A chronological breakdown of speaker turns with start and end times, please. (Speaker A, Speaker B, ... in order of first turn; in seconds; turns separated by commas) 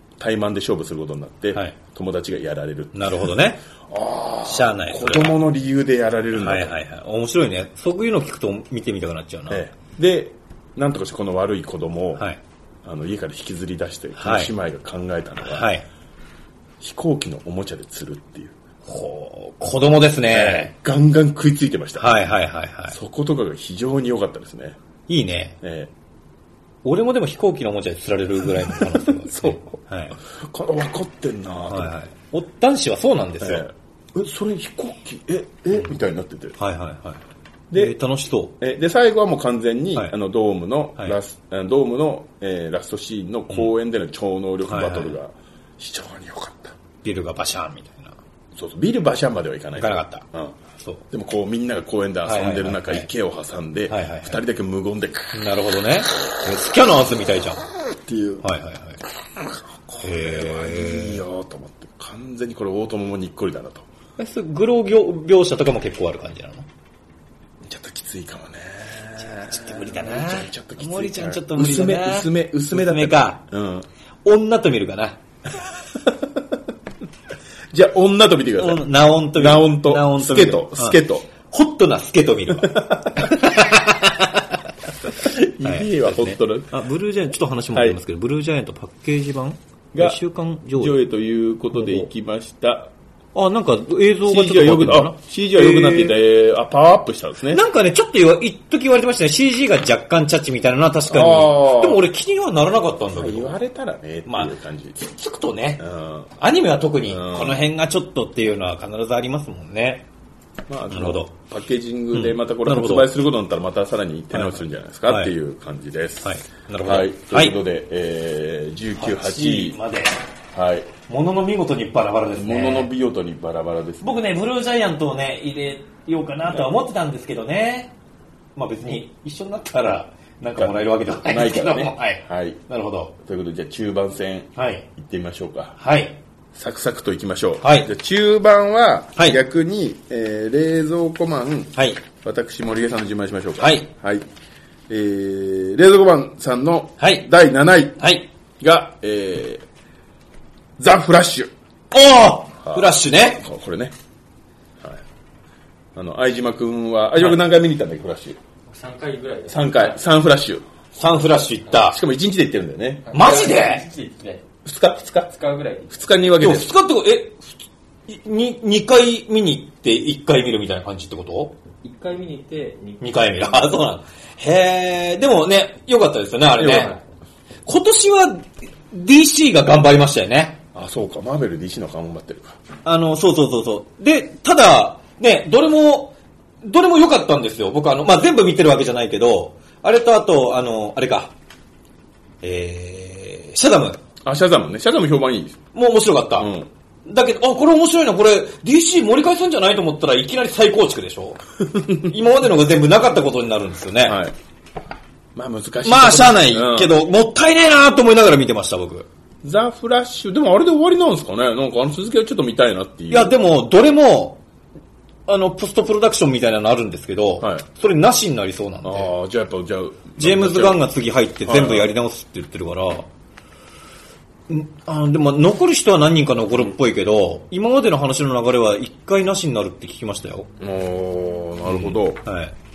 Speaker A: 0.2-6.8, Speaker B: 2.9-3.6, Speaker B: 4.5-5.4, Speaker B: 6.3-9.6, Speaker A: 9.5-12.2, Speaker A: 12.8-15.7, Speaker B: 14.2-14.5, Speaker B: 15.4-15.8, Speaker A: 16.8-18.6, Speaker B: 18.9-20.7, Speaker A: 20.3-22.2, Speaker B: 22.0-23.0, Speaker A: 22.9-24.8, Speaker B: 25.1-25.6, Speaker A: 25.6-25.9, Speaker B: 26.8-30.2, Speaker A: 28.7-31.9, Speaker B: 31.7-33.6, Speaker A: 33.4-36.6, Speaker B: 36.6-37.2, Speaker A: 37.7-38.0, Speaker B: 37.7-38.5, Speaker A: 38.6-46.8, Speaker B: 44.7-45.1, Speaker B: 47.0-48.2, Speaker A: 48.6-50.6, Speaker B: 49.8-50.2, Speaker A: 51.1-55.4, Speaker B: 52.2-53.1, Speaker B: 53.9-54.4, Speaker B: 55.3-57.6, Speaker A: 58.1-58.4, Speaker B: 58.4-59.0, Speaker A: 59.9-63.9, Speaker B: 60.0-61.2, Speaker B: 64.2-66.7, Speaker A: 67.7-73.9, Speaker B: 69.2-73.4, Speaker B: 74.2-75.2, Speaker A: 77.7-81.3, Speaker B: 78.6-91.0, Speaker A: 82.6-83.3, Speaker A: 85.2-86.7, Speaker A: 89.9-90.2, Speaker A: 90.7-92.9, Speaker B: 91.7-92.1, Speaker B: 93.3-96.2, Speaker A: 94.2-97.6, Speaker B: 97.5-103.6, Speaker A: 101.1-102.0, Speaker A: 103.1-105.0, Speaker B: 104.3-105.8, Speaker A: 105.8-106.3, Speaker B: 106.4-110.1, Speaker A: 107.1-107.6, Speaker A: 110.7-119.8, Speaker B: 110.9-111.3, Speaker B: 112.1-113.1, Speaker B: 114.3-115.3, Speaker B: 116.2-117.6, Speaker B: 119.0-120.1, Speaker A: 120.5-120.9, Speaker B: 121.1-122.9, Speaker A: 122.4-124.1, Speaker B: 124.0-127.9, Speaker B: 128.6-133.1, Speaker A: 130.6-132.6, Speaker A: 133.2-135.8, Speaker B: 134.6-134.8, Speaker B: 135.8-136.2, Speaker A: 136.6-144.2, Speaker B: 137.6-137.9, Speaker B: 141.8-142.0, Speaker B: 143.6-143.9, Speaker A: 144.9-148.1, Speaker B: 147.0-147.3, Speaker B: 148.0-148.3, Speaker A: 148.6-149.6, Speaker A: 150.8-151.5, Speaker B: 151.9-153.4, Speaker A: 152.6-153.9, Speaker A: 156.0-158.4, Speaker C: 158.7-160.0, Speaker A: 159.5-160.6, Speaker B: 160.9-162.0, Speaker A: 161.8-163.1, Speaker C: 163.1-164.4, Speaker B: 163.1-163.8, Speaker A: 164.6-165.3, Speaker C: 165.3-165.9, Speaker A: 165.9-166.7, Speaker B: 166.4-171.6, Speaker C: 171.8-173.1, Speaker B: 173.0-176.9, Speaker A: 176.6-176.9, Speaker B: 177.7-180.6, Speaker A: 180.8-182.6, Speaker B: 182.8-191.3, Speaker B: 192.4-194.0, Speaker A: 194.2-195.6, Speaker B: 195.7-196.5, Speaker A: 196.4-196.7, Speaker B: 197.1-201.4, Speaker B: 202.0-204.2, Speaker A: 204.0-204.3, Speaker A: 205.4-206.9, Speaker B: 205.8-209.1, Speaker A: 209.4-213.3, Speaker B: 213.1-214.4, Speaker B: 215.3-219.1, Speaker A: 217.4-217.7, Speaker A: 218.8-220.8, Speaker B: 220.2-223.1, Speaker A: 221.5-221.9, Speaker B: 224.5-230.5, Speaker A: 230.6-232.2, Speaker B: 231.6-232.6